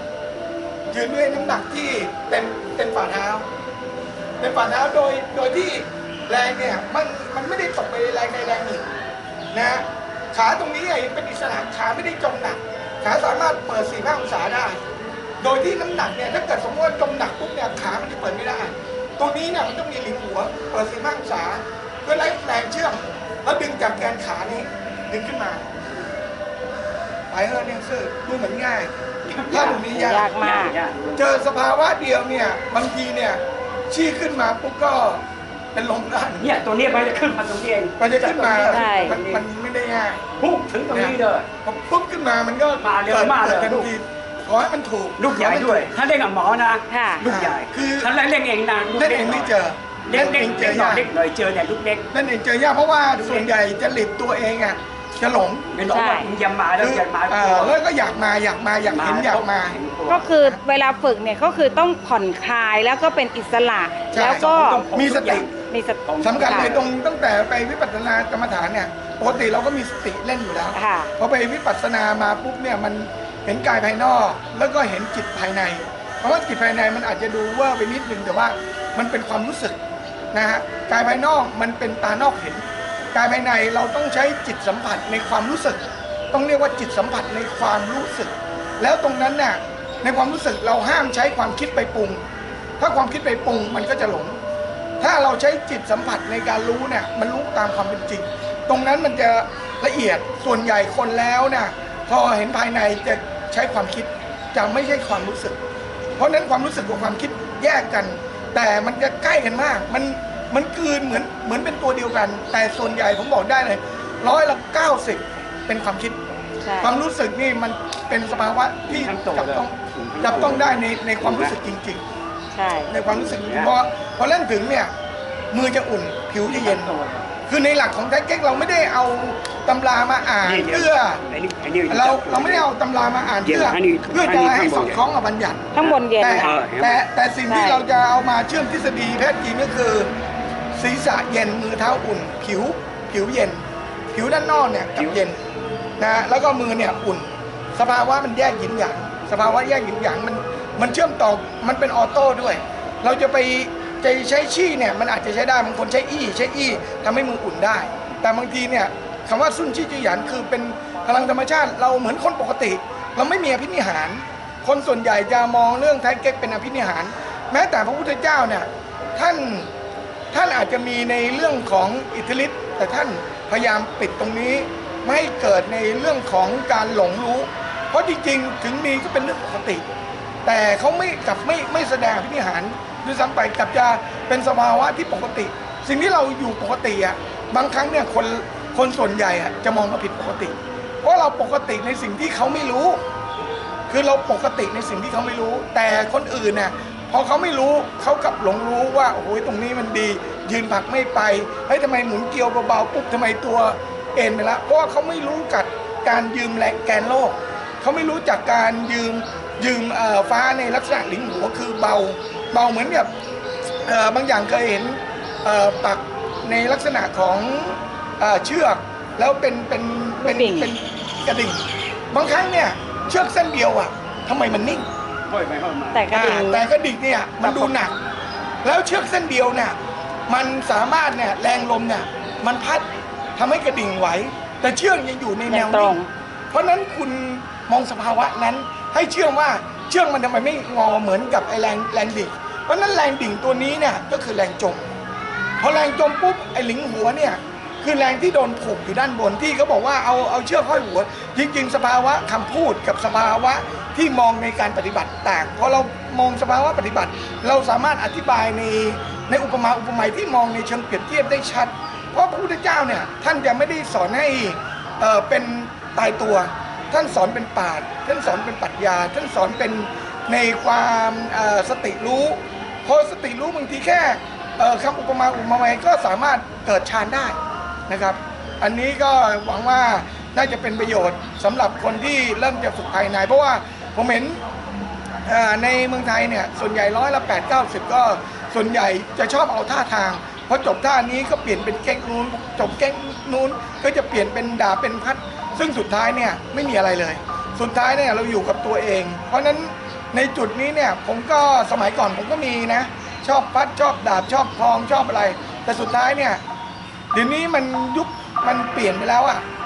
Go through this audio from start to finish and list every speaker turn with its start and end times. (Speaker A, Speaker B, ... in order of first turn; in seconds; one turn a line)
Speaker A: 0.9-3.5
Speaker A: 4.4-8.9
Speaker A: 9.5-14.8
Speaker A: 15.4-25.7
Speaker A: 27.3-28.9
Speaker B: 29.3-31.2
Speaker A: 29.5-30.3
Speaker C: 29.9-30.8
Speaker A: 31.1-35.2
Speaker A: 35.7-36.6
Speaker B: 36.4-39.4
Speaker A: 38.0-40.2
Speaker C: 38.7-39.2
Speaker B: 40.4-41.5
Speaker A: 40.9-45.9
Speaker B: 42.8-43.9
Speaker B: 45.2-52.0
Speaker C: 46.9-47.2
Speaker A: 47.2-48.1
Speaker A: 48.9-51.1
Speaker A: 52.1-55.7
Speaker B: 53.2-53.5
Speaker B: 55.7-57.8
Speaker C: 55.9-56.3
Speaker A: 56.8-59.7
Speaker B: 58.8-60.4
Speaker C: 60.1-64.8
Speaker A: 64.1-65.5
Speaker B: 64.2-65.5
Speaker C: 65.7-66.7
Speaker B: 66.0-66.9
Speaker A: 66.2-79.8
Speaker C: 70.7-71.1
Speaker A: 80.3-92.2
Speaker A: 92.8-94.4
Speaker A: 95.0-105.6
Speaker A: 106.2-116.2
Speaker C: 116.6-116.9
Speaker A: 116.8-122.0
Speaker B: 118.8-121.5
Speaker C: 122.5-122.9
Speaker A: 122.9-124.9
Speaker B: 123.0-123.7
Speaker A: 125.5-126.9
Speaker B: 126.4-127.3
Speaker A: 127.5-131.2
Speaker B: 130.4-132.7
Speaker A: 131.9-135.7
Speaker B: 133.4-135.0
Speaker C: 135.7-136.5
Speaker B: 135.8-137.0
Speaker A: 136.2-140.1
Speaker C: 137.5-137.8
Speaker A: 140.7-145.4
Speaker A: 146.0-169.7
Speaker A: 170.3-179.8
Speaker A: 180.4-193.0
Speaker A: 193.9-213.1
Speaker A: 213.8-224.9
Speaker C: 220.2-220.7
Speaker B: 225.3-226.0
Speaker C: 225.9-226.7
Speaker A: 226.1-227.9
Speaker C: 227.4-227.9
Speaker A: 228.6-229.8
Speaker A: 230.3-236.0
Speaker C: 235.5-236.1
Speaker A: 236.5-244.9
Speaker A: 245.6-277.4
Speaker A: 277.9-284.4
Speaker A: 285.2-306.4
Speaker A: 307.1-309.4